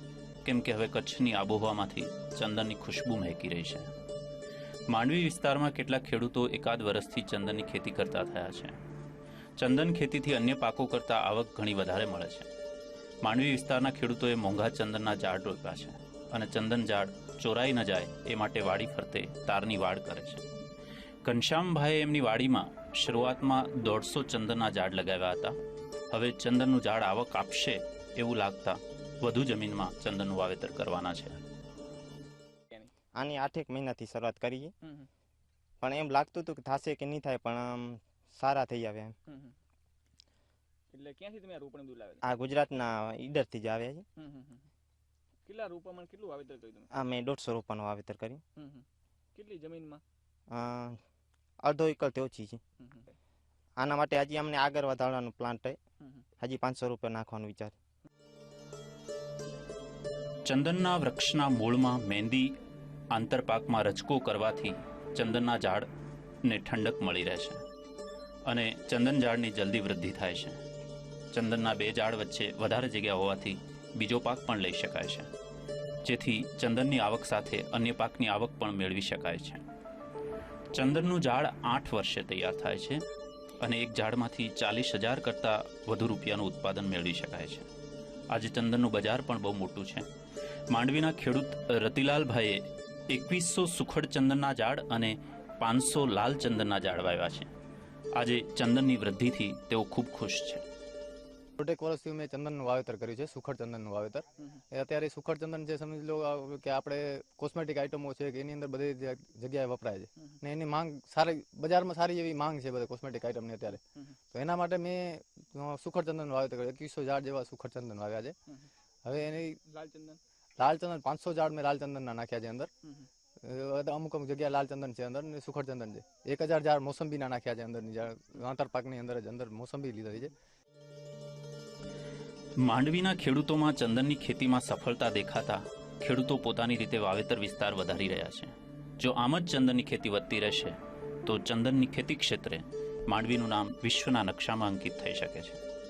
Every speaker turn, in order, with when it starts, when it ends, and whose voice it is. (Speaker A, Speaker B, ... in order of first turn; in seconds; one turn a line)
Speaker A: 0.4-3.9
Speaker A: 4.9-8.8
Speaker A: 9.6-12.5
Speaker A: 13.2-20.5
Speaker A: 21.2-25.6
Speaker A: 26.1-31.4
Speaker B: 33.2-34.7
Speaker C: 34.8-35.1
Speaker B: 35.8-39.1
Speaker C: 39.3-39.5
Speaker C: 40.9-42.2
Speaker B: 42.2-44.0
Speaker C: 44.2-44.6
Speaker C: 45.5-46.9
Speaker B: 46.9-48.4
Speaker C: 48.6-50.0
Speaker B: 50.5-51.0
Speaker B: 51.6-52.6
Speaker C: 52.8-53.1
Speaker B: 53.8-55.8
Speaker B: 56.4-57.8
Speaker A: 60.4-62.5
Speaker A: 63.1-65.9
Speaker A: 66.4-67.6
Speaker A: 68.5-70.6
Speaker A: 71.3-75.3
Speaker A: 76.0-79.6
Speaker A: 80.7-83.0
Speaker A: 83.6-87.7
Speaker A: 88.3-90.1
Speaker A: 90.7-97.5
Speaker A: 98.1-100.6
Speaker D: 101.6-113.8
Speaker D: 114.3-118.3
Speaker D: 119.0-119.6
Speaker C: 119.7-120.2
Speaker D: 120.6-122.7
Speaker D: 123.4-130.3
Speaker A: 132.6-145.6